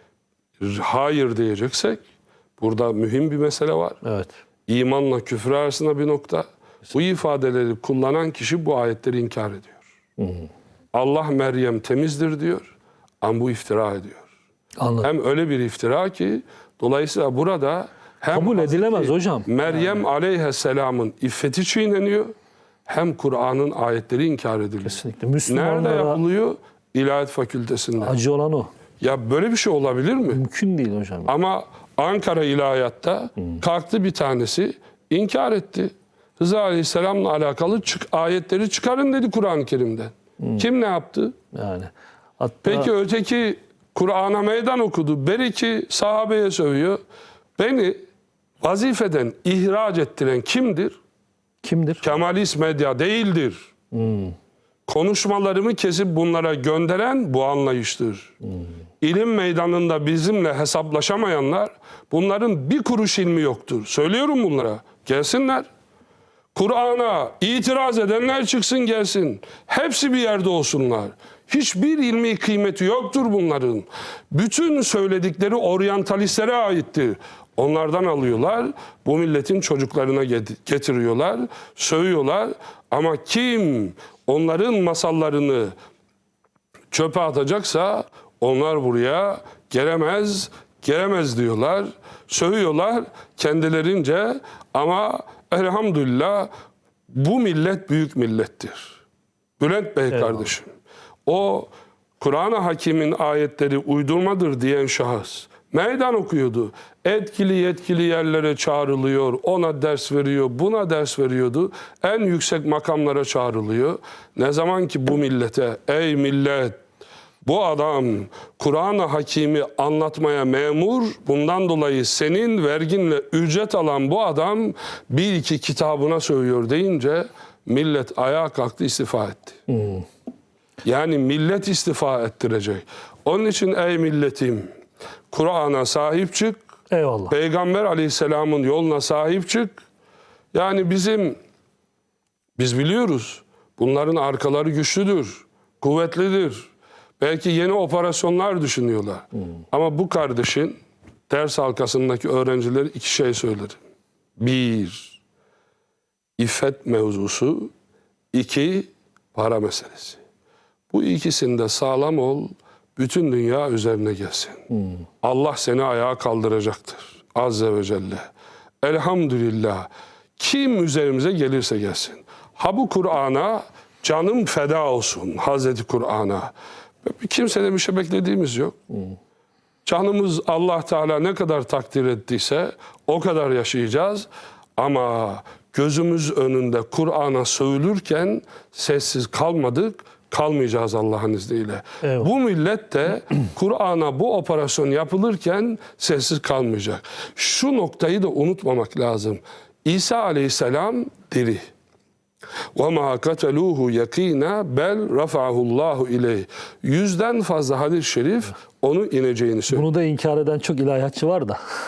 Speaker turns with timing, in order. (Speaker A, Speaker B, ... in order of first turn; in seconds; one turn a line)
Speaker A: 0.6-2.0
Speaker A: 2.6-4.0
Speaker B: 4.0-4.3
Speaker A: 4.7-9.8
Speaker B: 10.2-10.5
Speaker A: 10.9-14.3
Speaker B: 14.8-15.1
Speaker A: 15.0-22.3
Speaker B: 18.3-20.0
Speaker A: 22.9-28.1
Speaker B: 24.8-26.2
Speaker B: 28.0-28.7
Speaker A: 29.0-30.4
Speaker B: 30.3-31.3
Speaker A: 31.3-41.4
Speaker B: 41.5-42.9
Speaker A: 42.6-47.0
Speaker A: 47.6-48.0
Speaker A: 48.6-51.0
Speaker B: 51.6-52.0
Speaker A: 52.0-53.7
Speaker B: 53.9-54.4
Speaker A: 54.9-58.3
Speaker A: 59.0-65.7
Speaker A: 66.5-85.7
Speaker A: 86.9-96.5
Speaker A: 97.1-99.0
Speaker A: 99.6-100.7
Speaker B: 100.1-100.4
Speaker A: 101.3-116.8
Speaker A: 117.4-129.6
Speaker B: 129.7-130.1
Speaker A: 130.8-134.7
Speaker A: 135.3-136.6
Speaker B: 136.9-137.3
Speaker A: 137.3-139.8
Speaker A: 140.5-141.4
Speaker A: 142.6-153.8
Speaker A: 154.4-155.2
Speaker A: 156.4-157.7
Speaker A: 158.3-160.2
Speaker A: 160.9-164.7
Speaker A: 165.2-168.3
Speaker A: 168.8-176.5
Speaker A: 177.0-178.8
Speaker A: 179.8-201.7
Speaker B: 192.0-192.3
Speaker A: 202.8-209.9
Speaker B: 209.7-211.6